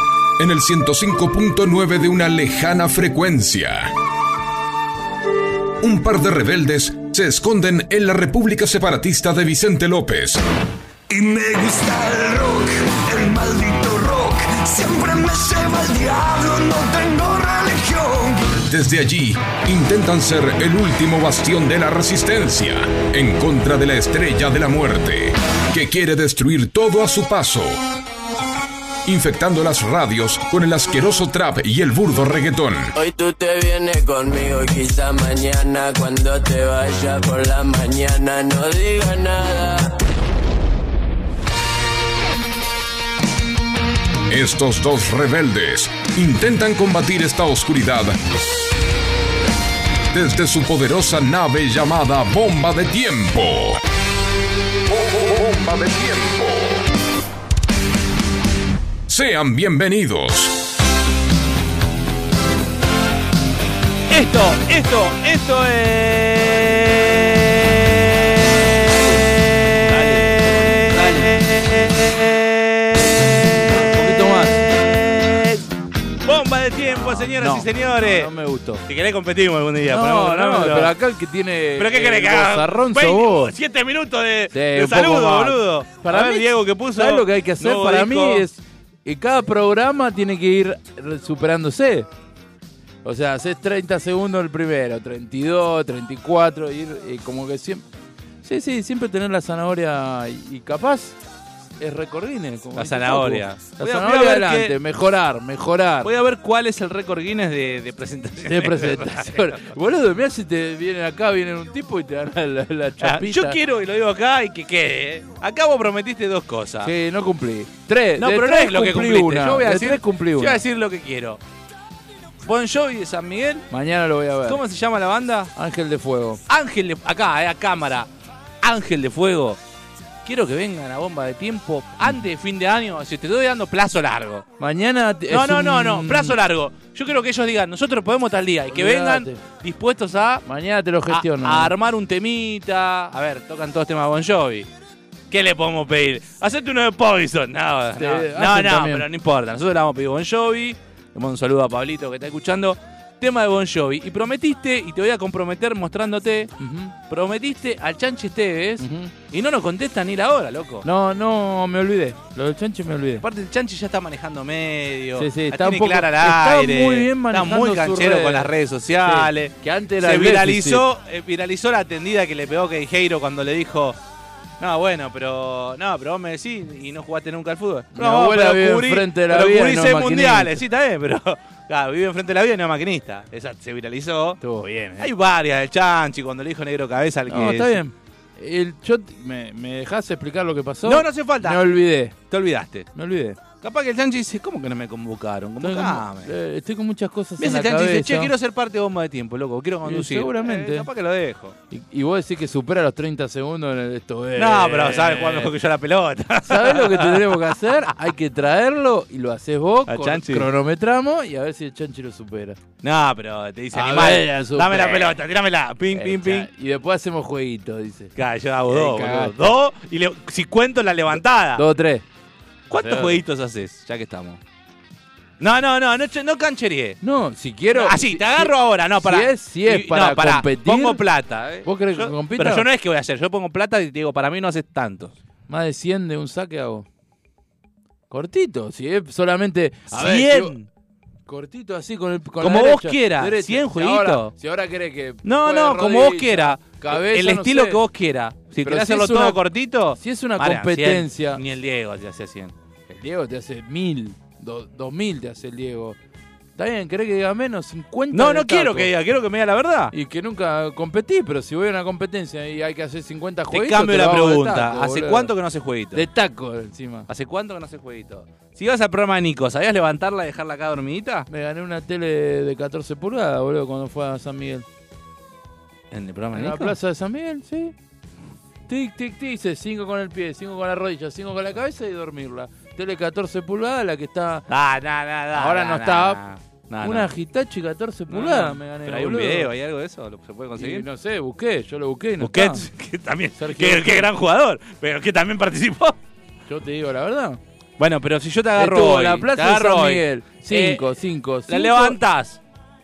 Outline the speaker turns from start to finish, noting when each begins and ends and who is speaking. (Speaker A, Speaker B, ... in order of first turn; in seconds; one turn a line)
Speaker A: 0.4-4.0
Speaker A: 5.8-10.4
Speaker B: 11.1-18.6
Speaker A: 18.6-27.8
Speaker A: 29.1-32.9
Speaker C: 33.0-40.0
Speaker A: 44.3-48.2
Speaker A: 50.1-53.8
Speaker A: 54.9-56.8
Speaker A: 59.1-60.6
Speaker D: 64.1-67.8
Speaker E: 69.8-71.3
Speaker D: 69.9-73.5
Speaker E: 73.5-74.7
Speaker D: 74.4-75.7
Speaker D: 76.2-78.3
Speaker E: 77.0-78.8
Speaker D: 78.8-81.0
Speaker E: 79.9-83.5
Speaker D: 81.8-88.5
Speaker E: 84.5-92.1
Speaker E: 93.0-97.8
Speaker E: 98.4-101.2
Speaker E: 101.8-106.1
Speaker D: 102.8-104.8
Speaker D: 106.0-109.7
Speaker E: 108.4-113.6
Speaker D: 113.0-116.9
Speaker E: 116.8-120.6
Speaker D: 118.2-121.4
Speaker D: 122.4-123.7
Speaker E: 123.7-124.6
Speaker D: 124.5-125.5
Speaker E: 125.5-126.4
Speaker D: 126.5-128.1
Speaker D: 128.6-129.6
Speaker D: 130.2-134.5
Speaker E: 134.6-136.4
Speaker D: 135.3-140.4
Speaker E: 138.7-139.4
Speaker E: 140.4-141.7
Speaker D: 141.1-144.7
Speaker D: 145.3-156.5
Speaker E: 148.0-149.1
Speaker E: 156.6-156.9
Speaker D: 157.1-160.9
Speaker E: 158.8-159.1
Speaker E: 160.8-163.2
Speaker D: 163.2-174.0
Speaker E: 165.2-168.5
Speaker E: 169.0-170.8
Speaker D: 174.6-184.4
Speaker E: 177.9-180.6
Speaker E: 184.4-185.1
Speaker D: 185.0-187.8
Speaker E: 187.3-192.2
Speaker D: 190.8-191.7
Speaker D: 192.3-192.9
Speaker E: 192.9-193.4
Speaker D: 193.6-196.3
Speaker E: 195.6-198.3
Speaker D: 197.4-201.6
Speaker E: 199.8-200.9
Speaker E: 201.7-205.5
Speaker D: 204.4-207.5
Speaker E: 206.4-212.6
Speaker D: 209.9-210.5
Speaker D: 212.8-216.5
Speaker E: 213.7-215.2
Speaker E: 215.9-218.1
Speaker D: 218.2-221.6
Speaker E: 218.7-219.5
Speaker E: 221.6-222.0
Speaker D: 222.7-224.4
Speaker E: 222.7-223.2
Speaker D: 225.4-227.0
Speaker E: 227.0-231.0
Speaker D: 227.7-235.1
Speaker E: 231.7-232.7
Speaker E: 235.5-236.9
Speaker E: 238.1-240.5
Speaker D: 239.9-240.7
Speaker E: 241.3-247.8
Speaker D: 242.4-244.3
Speaker D: 245.2-252.5
Speaker E: 248.6-249.4
Speaker E: 249.9-251.4
Speaker E: 252.9-256.0
Speaker E: 256.6-258.9
Speaker D: 258.1-259.9
Speaker E: 259.9-265.3
Speaker D: 263.5-266.1
Speaker E: 265.9-267.1
Speaker D: 267.1-271.3
Speaker E: 271.3-274.7
Speaker D: 275.9-276.8
Speaker E: 276.3-277.7
Speaker E: 278.7-284.5
Speaker D: 284.5-287.1
Speaker E: 285.4-286.2
Speaker E: 286.8-289.5
Speaker D: 288.1-290.9
Speaker E: 290.6-292.6
Speaker D: 292.2-296.0
Speaker E: 293.4-294.1
Speaker E: 296.5-297.4
Speaker D: 297.8-302.4
Speaker E: 298.6-302.0